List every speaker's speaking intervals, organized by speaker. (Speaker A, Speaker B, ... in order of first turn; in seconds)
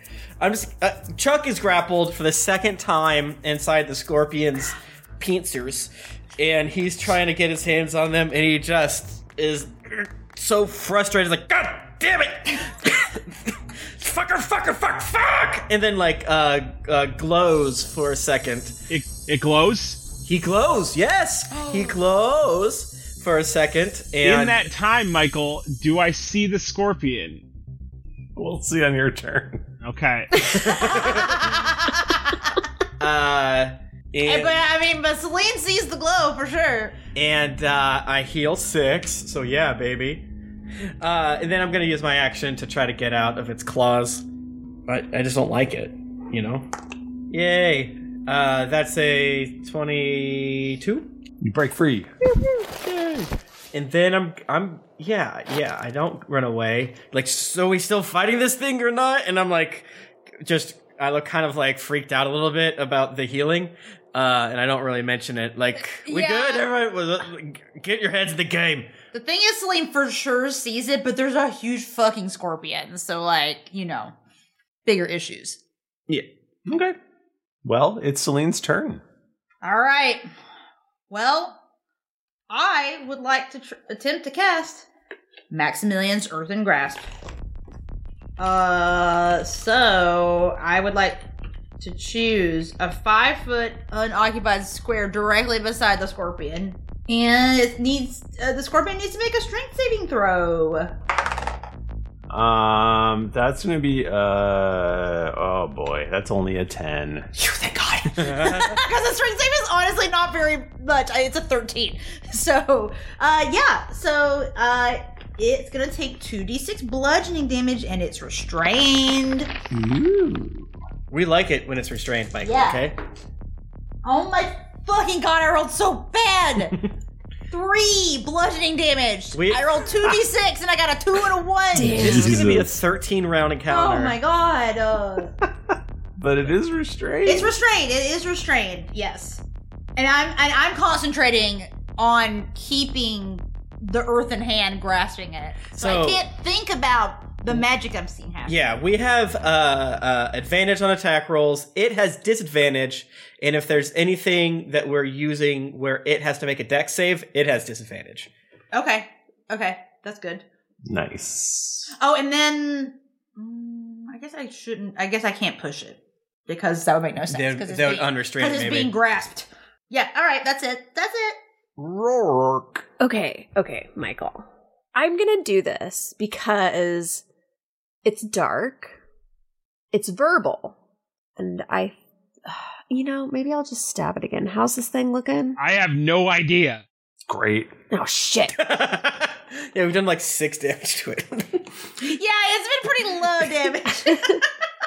Speaker A: 0.4-18.8, 20.2-24.7, 30.6-31.6, 33.0-34.6, 37.1-40.3, 41.0-44.2, 44.9-46.7, 47.3-51.1, 52.7-59.9, 60.4-68.9, 108.2-108.8, 121.1-123.0, 129.3-130.2, 132.0-134.2, 145.7-146.3, 148.5-158.3, 167.3-168.9, 188.6-191.7
Speaker B: 18.9-20.1, 24.2-27.5, 29.8-30.4, 185.6-186.8
Speaker C: 21.5-22.0, 30.6-32.4, 34.2-37.0, 66.0-66.7, 69.1-74.2, 74.8-75.6, 79.6-80.2, 81.1-81.6, 82.5-84.9, 85.5-87.1, 88.4-91.2, 91.8-100.9, 107.3-119.5, 122.4-122.9, 124.0-126.8, 127.5-132.2, 133.7-135.3, 137.2-139.4, 140.0-148.6, 158.7-160.4, 162.0-171.4, 192.0-194.4
Speaker D: 28.4-29.6, 51.4-52.1, 77.7-79.0, 102.3-107.3, 119.7-120.7, 131.9-132.8, 136.2-137.6, 160.9-161.9, 171.8-172.8, 187.3-187.7
Speaker E: 131.7-132.4, 173.0-177.2, 178.1-179.0, 179.9-180.8, 181.4-185.6, 187.9-188.6